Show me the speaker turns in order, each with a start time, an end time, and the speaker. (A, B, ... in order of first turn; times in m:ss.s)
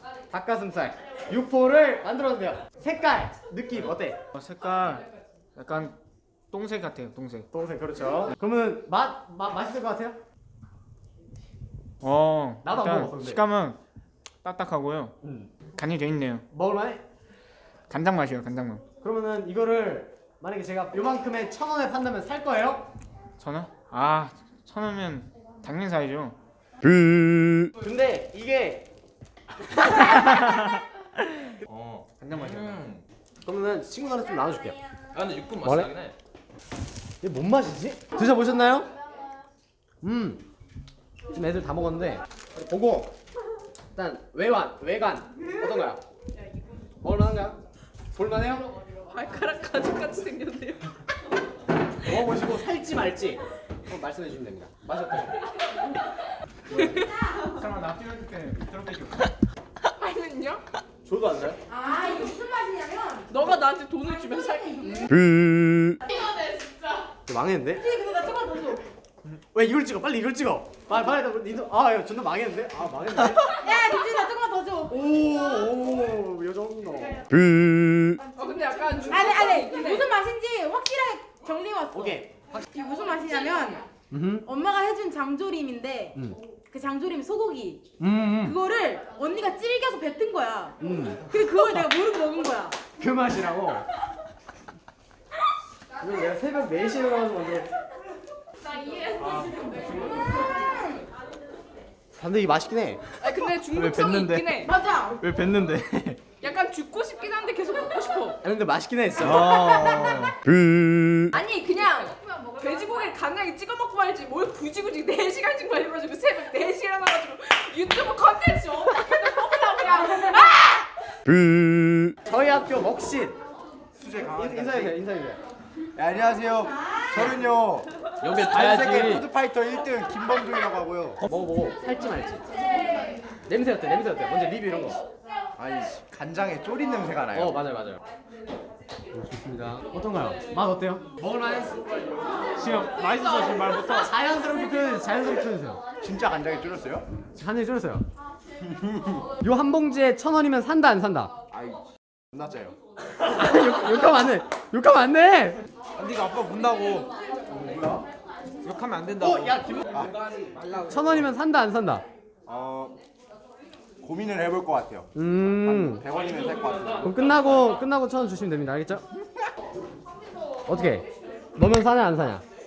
0:00.3-0:04.2 A
0:04.4-0:05.1 B
0:05.6-0:06.0 B
0:06.5-0:07.5 B
0:07.5-0:10.2 A
0:12.0-0:13.8 B
0:12.6-0:13.4 A
0:14.4-0:15.1 B
0:15.2-0:15.5 A
0:15.8-0:16.4 B
0:16.5-0:17.0 A
0:17.9-0:18.8 B
0:19.0-0:22.9 A
0:23.4-0:26.4 B
0:27.8-0:28.9 A
0:29.6-0:30.7 A
0:31.7-0:33.0 C
0:32.3-0:32.8 B
0:33.4-0:34.8 A
0:35.1-0:36.2 C
0:35.6-0:35.9 A
0:37.2-0:38.9 A
0:40.0-0:40.4 A
0:41.3-0:43.1 A
0:43.9-0:46.0 A
0:47.0-0:47.6 A
0:48.1-0:48.7 A
0:49.1-0:50.9 D
0:52.0-0:55.4 A
0:56.7-0:57.2 D
0:57.5-0:59.2 B
1:00.0-1:00.6 D
1:01.0-1:01.6 A
1:01.7-1:03.3 E
1:03.3-1:05.2 D
1:07.3-1:07.9 A
1:07.9-1:08.8 E
1:09.5-1:13.7 A
1:13.6-1:14.9 E
1:14.9-1:17.4 A
1:18.4-1:20.1 D
1:19.1-1:23.8 E
1:21.9-1:22.7 A
1:24.1-1:24.5 A
1:24.5-1:26.1 E
1:26.7-1:27.8 E
1:28.0-1:28.6 A
1:28.4-1:30.8 E
1:30.8-1:31.7 A
1:31.3-1:32.8 E
1:33.0-1:33.9 A
1:36.0-1:37.7 A
1:42.1-1:43.1 A
1:43.2-1:44.7 D
1:43.7-1:44.4 A
1:44.7-1:45.2 E
1:45.2-1:46.2 A
1:46.4-1:48.4 D
1:48.4-1:50.3 A
1:49.6-1:50.0 D
1:51.3-2:00.9 D
2:02.3-2:03.4 A
2:04.0-2:04.9 F
2:04.3-2:05.4 A
2:06.0-2:11.2 F
2:08.2-2:09.3 A
2:11.2-2:12.5 A
2:13.5-2:15.0 A
2:15.6-2:17.6 F
2:17.3-2:18.0 A
2:19.1-2:21.8 A
2:22.6-2:25.8 A
2:23.4-2:23.8 F
2:26.0-2:27.1 F
2:27.4-2:28.0 A
2:29.4-2:31.3 A
2:31.5-2:32.8 F
2:33.2-2:35.6 A
2:36.0-2:37.1 B
2:37.6-2:38.0 F
2:38.6-2:39.7 B
2:39.9-2:40.5 F
2:40.8-2:42.0 A
2:42.5-2:43.0 F
2:44.0-2:45.1 F
2:45.2-2:46.0 A
2:45.6-2:47.1 F
2:47.0-2:49.0 A
2:50.7-2:52.4 A